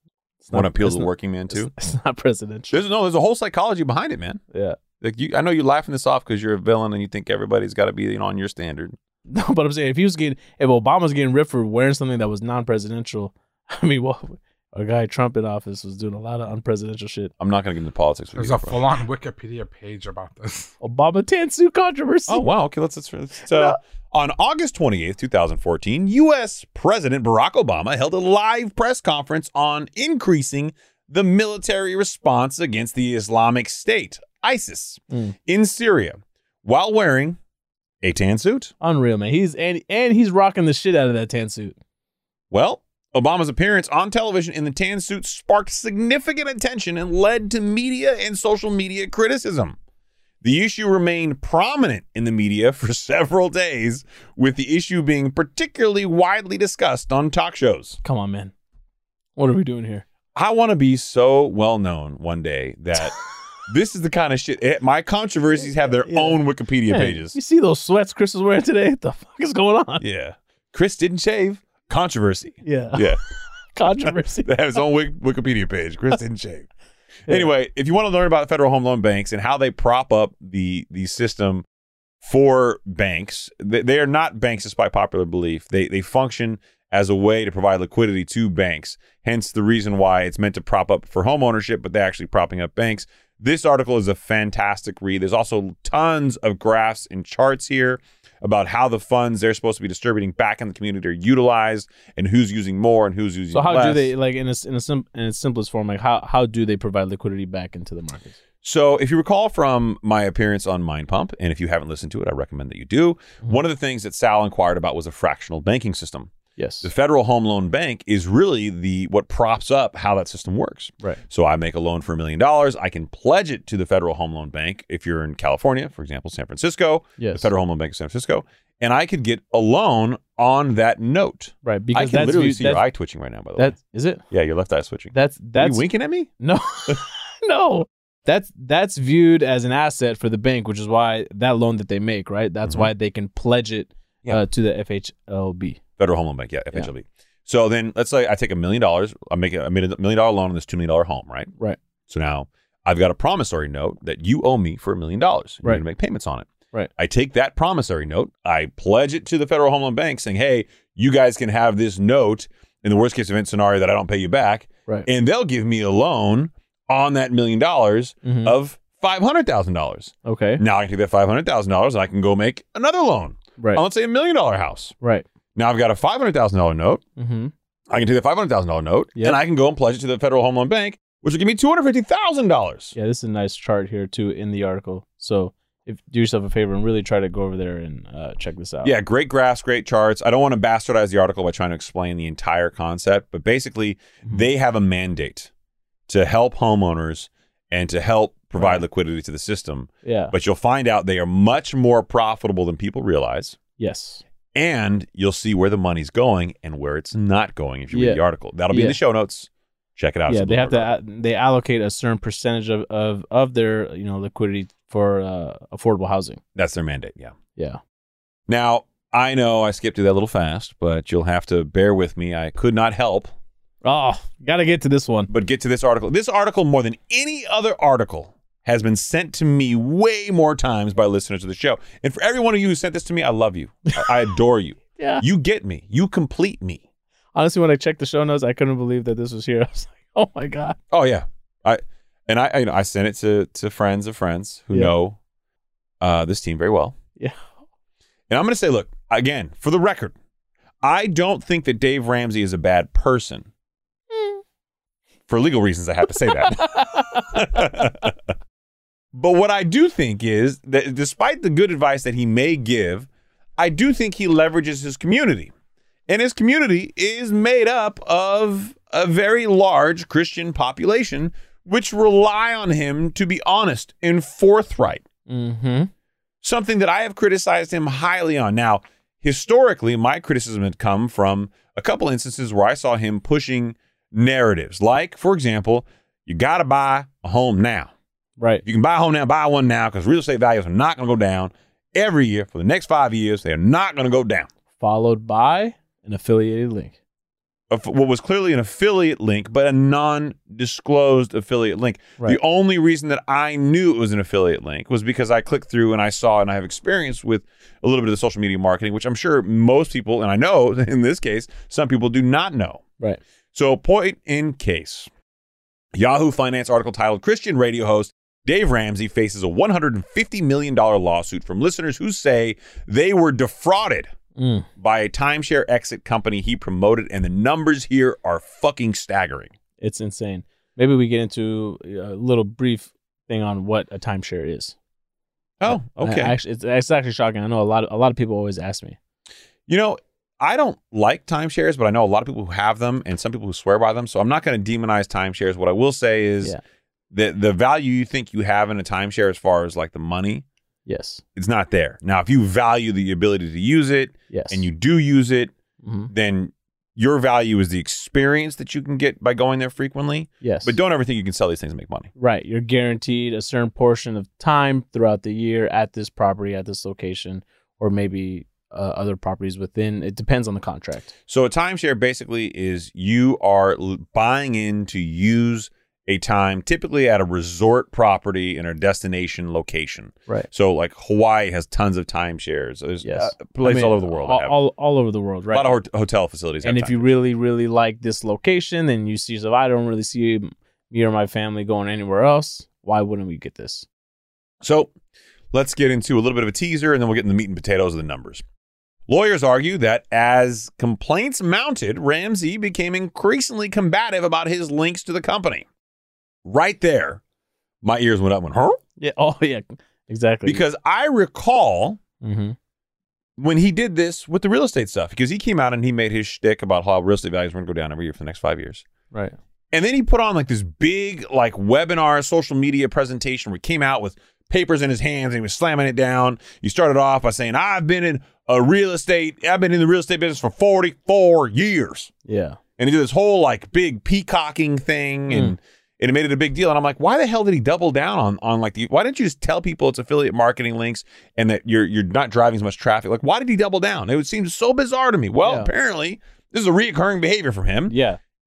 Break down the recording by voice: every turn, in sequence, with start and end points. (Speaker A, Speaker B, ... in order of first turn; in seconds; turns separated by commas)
Speaker A: 0.4-2.8, Speaker B: 0.5-1.7, Speaker B: 2.7-4.4, Speaker A: 4.5-4.8, Speaker B: 5.0-9.0, Speaker A: 9.3-17.3, Speaker B: 17.4-18.8, Speaker C: 18.4-20.7, Speaker A: 20.8-22.5, Speaker B: 22.3-37.4, Speaker A: 23.5-23.8, Speaker A: 35.1-35.4, Speaker B: 38.0-38.7, Speaker A: 38.8-41.8, Speaker B: 42.5-49.8, Speaker B: 50.4-58.0, Speaker A: 58.0-58.5, Speaker A: 59.4-60.0, Speaker B: 60.4-67.4, Speaker A: 65.8-70.0, Speaker B: 70.0-73.2, Speaker A: 72.6-73.1, Speaker A: 73.7-74.6, Speaker B: 74.0-76.7, Speaker B: 77.3-81.7, Speaker B: 82.2-104.1, Speaker A: 103.5-108.4, Speaker B: 108.6-116.3, Speaker A: 116.6-116.9, Speaker B: 116.8-133.8, Speaker A: 127.2-127.5, Speaker A: 131.6-132.8, Speaker A: 133.6-134.2, Speaker B: 134.3-136.3, Speaker A: 135.1-135.9, Speaker A: 136.4-145.8, Speaker B: 142.6-142.9, Speaker B: 146.0-151.5, Speaker B: 152.1-174.9, Speaker A: 168.2-168.6, Speaker A: 170.2-170.6, Speaker A: 173.6-173.8, Speaker A: 175.0-175.3, Speaker B: 175.6-177.0, Speaker A: 177.2-177.5, Speaker B: 177.9-182.9, Speaker A: 182.9-188.9, Speaker B: 188.8-195.5, Speaker B: 196.1-203.6, Speaker A: 198.6-198.8, Speaker A: 200.0-200.3, Speaker A: 203.8-204.2, Speaker B: 204.5-211.0, Speaker A: 207.9-209.0, Speaker A: 210.3-216.4, Speaker B: 216.6-217.3, Speaker B: 218.5-223.3, Speaker A: 223.8-225.3, Speaker B: 225.3-236.8, Speaker A: 235.0-235.2, Speaker A: 237.3-240.8, Speaker B: 240.9-245.2, Speaker B: 246.0-246.9, Speaker B: 248.3-250.2, Speaker B: 250.8-253.5, Speaker A: 254.1-254.4, Speaker B: 255.3-258.1, Speaker A: 256.2-257.9, Speaker B: 259.1-265.5, Speaker B: 266.1-275.0, Speaker A: 275.3-275.9, Speaker B: 276.4-287.9, Speaker A: 288.4-288.6, Speaker B: 288.6-294.5, Speaker A: 294.8-297.0, Speaker B: 297.7-312.8, Speaker B: 313.5-315.1, Speaker B: 315.9-324.1, Speaker A: 324.4-324.7, Speaker B: 324.8-329.5, Speaker A: 329.8-334.8, Speaker B: 335.6-336.4, Speaker A: 335.7-339.0, Speaker B: 339.7-346.6, Speaker B: 347.1-350.4, Speaker A: 350.9-351.2, Speaker B: 351.4-355.5, Speaker A: 354.3-354.6, Speaker A: 355.8-356.1, Speaker B: 356.1-362.1, Speaker A: 360.4-360.8, Speaker A: 362.2-371.1, Speaker B: 371.3-384.6, Speaker A: 383.0-385.8, Speaker B: 385.5-387.1, Speaker A: 386.6-393.9, Speaker B: 394.6-394.9, Speaker B: 395.5-398.4, Speaker B: 399.1-405.7, Speaker B: 406.4-407.2, Speaker B: 407.8-408.8, Speaker A: 409.0-410.6, Speaker B: 410.4-412.0, Speaker A: 412.2-412.6, Speaker B: 413.4-418.9, Speaker A: 419.1-419.4, Speaker B: 419.7-432.1, Speaker A: 432.2-432.6, Speaker B: 432.8-448.0, Speaker A: 435.3-435.6, Speaker A: 445.4-445.7, Speaker A: 447.9-448.2